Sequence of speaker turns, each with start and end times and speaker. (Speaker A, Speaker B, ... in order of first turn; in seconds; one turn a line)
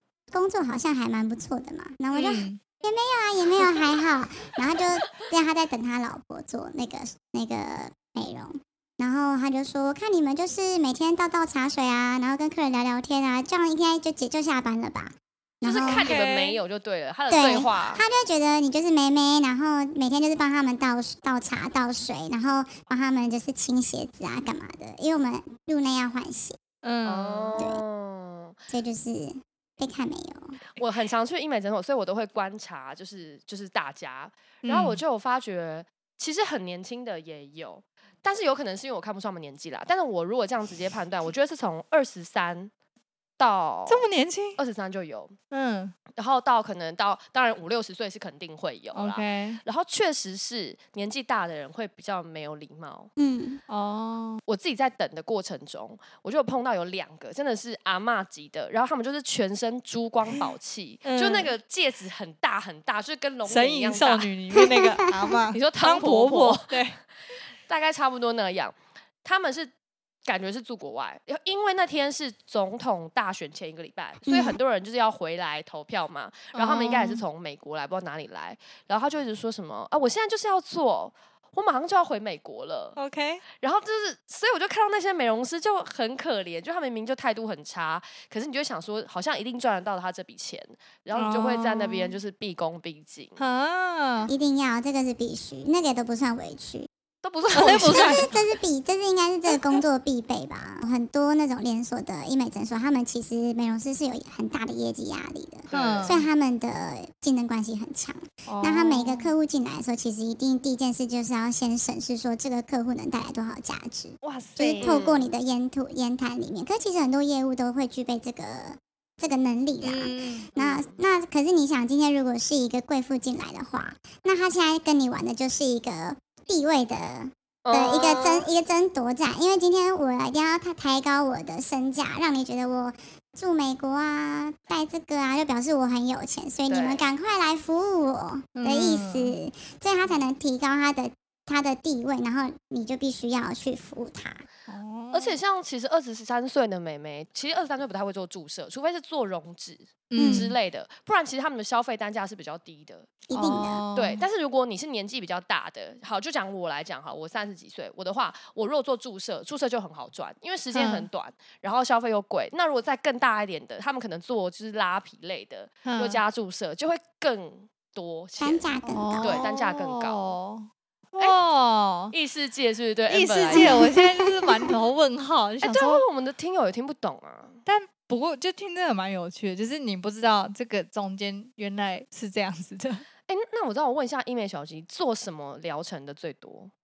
Speaker A: 0.3-16.1
Speaker B: 2.1-2.6
Speaker C: 15.6-18.0
Speaker B: 15.8-16.6
Speaker A: 17.3-26.6
Speaker B: 26.8-27.6
Speaker C: 27.1-28.6
Speaker A: 28.7-30.6
Speaker C: 30.8-42.7
Speaker B: 34.6-35.0
Speaker C: 43.4-44.1
Speaker B: 43.9-44.6
Speaker C: 44.6-45.4
Speaker B: 45.5-46.0
Speaker C: 46.1-53.1
Speaker B: 48.9-49.6
Speaker A: 53.2-53.6
Speaker B: 53.7-54.4
Speaker C: 54.5-64.3
Speaker B: 61.0-61.5
Speaker B: 63.5-67.0
Speaker A: 64.6-65.1
Speaker C: 65.5-66.8
Speaker C: 67.7-69.7
Speaker C: 70.3-83.0
Speaker A: 74.3-74.6
Speaker B: 76.5-77.2
Speaker B: 83.0-83.4
Speaker C: 83.6-93.4
Speaker B: 91.2-92.2
Speaker B: 93.4-94.3
Speaker A: 94.3-96.9
Speaker C: 97.2-98.3
Speaker B: 97.5-98.3
Speaker A: 97.5-144.4
Speaker C: 105.7-106.2
Speaker B: 105.7-106.2
Speaker B: 108.5-109.3
Speaker B: 114.2-115.0
Speaker C: 114.8-115.3
Speaker B: 119.8-120.5
Speaker C: 120.6-121.0
Speaker C: 127.7-128.5
Speaker C: 136.7-137.0
Speaker B: 138.6-139.4
Speaker B: 144.7-145.4
Speaker C: 145.1-153.2
Speaker B: 150.1-150.6
Speaker A: 150.2-150.5
Speaker A: 153.3-153.8
Speaker B: 153.3-154.2
Speaker C: 153.9-170.2
Speaker B: 160.7-161.1
Speaker B: 165.8-166.2
Speaker A: 168.4-169.4
Speaker B: 168.9-172.1
Speaker C: 172.1-173.8
Speaker B: 173.1-176.1
Speaker A: 173.5-174.5
Speaker C: 175.6-177.6
Speaker B: 177.7-183.1
Speaker C: 183.3-186.7